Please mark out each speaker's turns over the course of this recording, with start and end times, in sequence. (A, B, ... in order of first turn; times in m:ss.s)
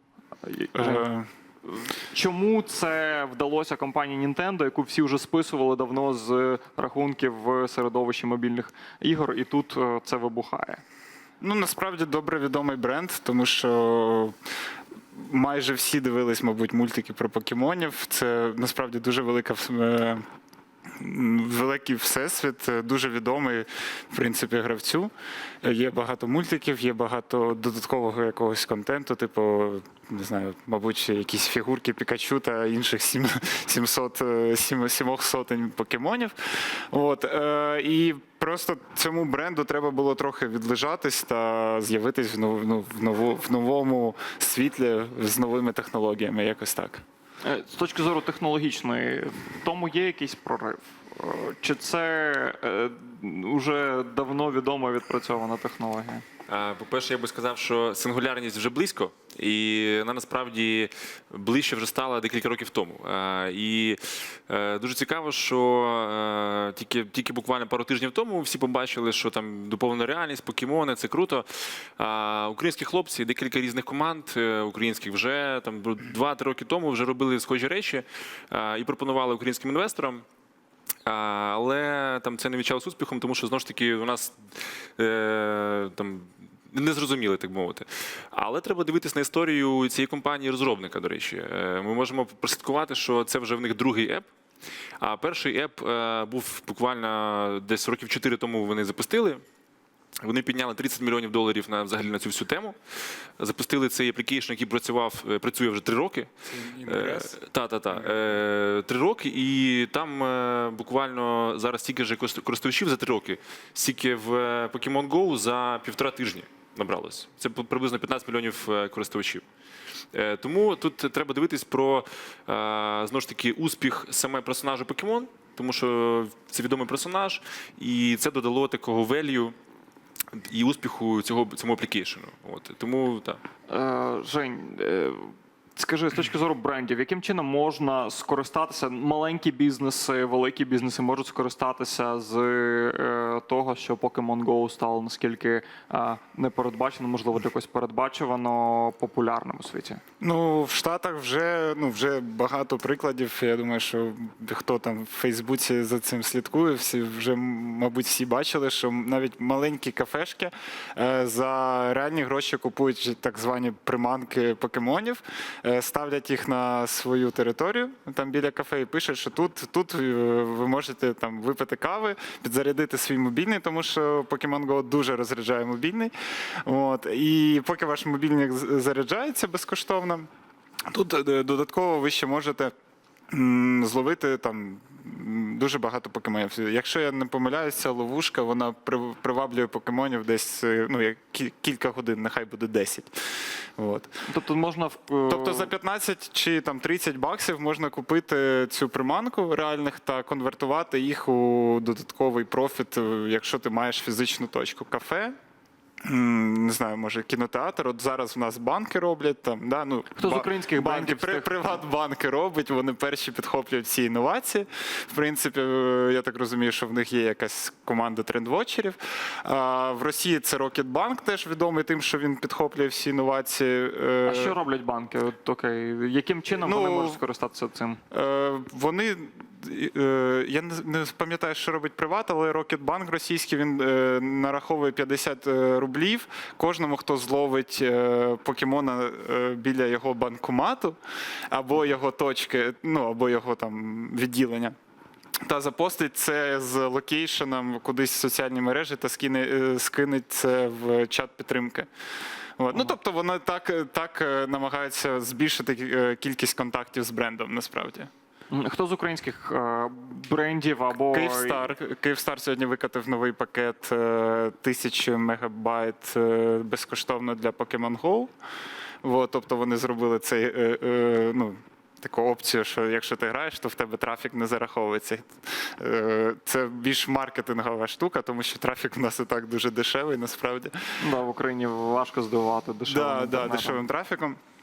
0:00.4-0:01.1 A
0:00.8-0:01.3 B
0:01.6-0:10.8 A
0:11.4-0:14.3 B
0:15.1-0:20.2 B
0:21.0-0:25.1 B
0:25.6-0:47.0 B
0:47.4-0:56.2 A
0:56.5-1:11.4 C
1:12.0-1:20.2 C
1:21.0-1:24.4 C
1:25.0-1:34.3 C
1:35.0-1:39.4 C
1:40.2-1:42.8 C
1:43.4-1:46.3 C
1:46.5-1:47.4 B
1:46.8-1:59.4 C
2:00.1-2:09.5 C
2:10.3-2:13.4 C
2:13.7-2:30.0 A
2:30.2-2:56.1 B
2:56.6-3:00.3 B
3:00.9-3:02.7 B
3:03.3-3:13.1 B
3:13.8-3:14.1 B
3:14.2-3:15.7 A
3:15.3-3:25.3 B
3:26.0-3:44.6 B
3:30.1-3:31.8 A
3:44.2-3:48.0 A
3:46.6-3:47.2 B
3:48.1-4:01.0 B
4:01.5-4:04.7 B
4:05.4-4:11.9 B
4:12.6-4:18.1 B
4:18.5-4:21.7 A
4:21.0-4:28.3 B
4:29.0-4:40.8 B
4:41.0-4:43.8 A
4:42.9-4:44.4 B